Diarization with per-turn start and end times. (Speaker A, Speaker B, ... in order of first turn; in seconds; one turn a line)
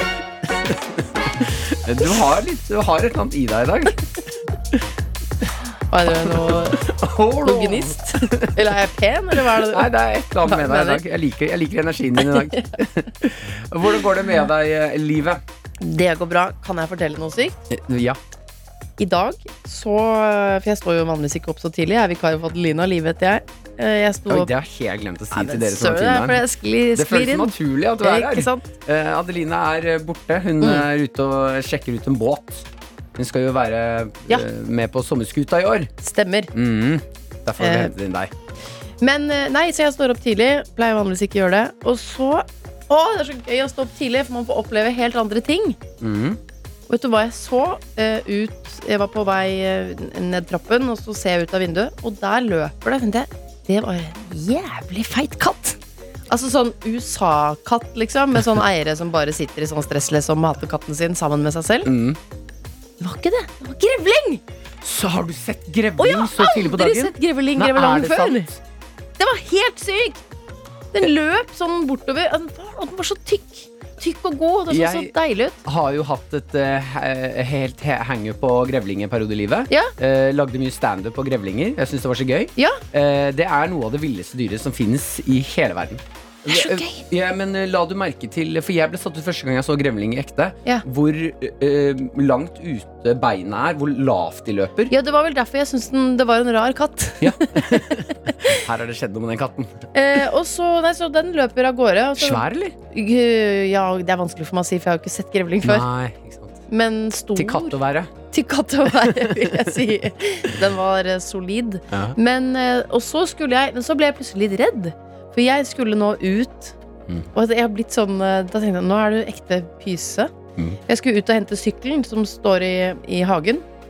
Speaker A: 1.3-4.0
Speaker B: 5.9-6.8
Speaker A: 6.2-8.7
Speaker B: 7.4-9.9
Speaker A: 9.3-15.4
Speaker B: 10.4-11.0
Speaker B: 12.2-12.7
Speaker B: 15.8-17.6
Speaker A: 17.7-18.2
Speaker B: 19.0-24.5
Speaker A: 24.3-26.4
Speaker B: 25.3-28.6
Speaker A: 26.9-35.9
Speaker B: 30.6-30.9
Speaker B: 36.0-36.5
Speaker A: 36.5-38.3
Speaker B: 37.6-37.9
Speaker B: 39.0-45.8
Speaker A: 46.0-46.4
Speaker B: 46.9-55.8
Speaker B: 56.3-61.9
Speaker A: 61.8-62.2
Speaker B: 63.0-64.4
Speaker A: 64.8-68.6
Speaker B: 66.0-68.5
Speaker B: 69.2-70.2
Speaker B: 70.9-75.6
Speaker A: 74.7-75.1
Speaker A: 75.6-94.9
Speaker B: 82.6-82.8
Speaker B: 86.5-87.0
Speaker B: 94.9-98.6
Speaker A: 97.2-99.8
Speaker B: 99.9-105.8
Speaker A: 102.2-102.7
Speaker A: 105.6-106.6
Speaker B: 106.7-107.7
Speaker A: 107.3-108.1
Speaker B: 108.3-116.7
Speaker A: 108.9-109.7
Speaker A: 111.9-112.2
Speaker B: 117.3-120.3
Speaker B: 120.9-123.7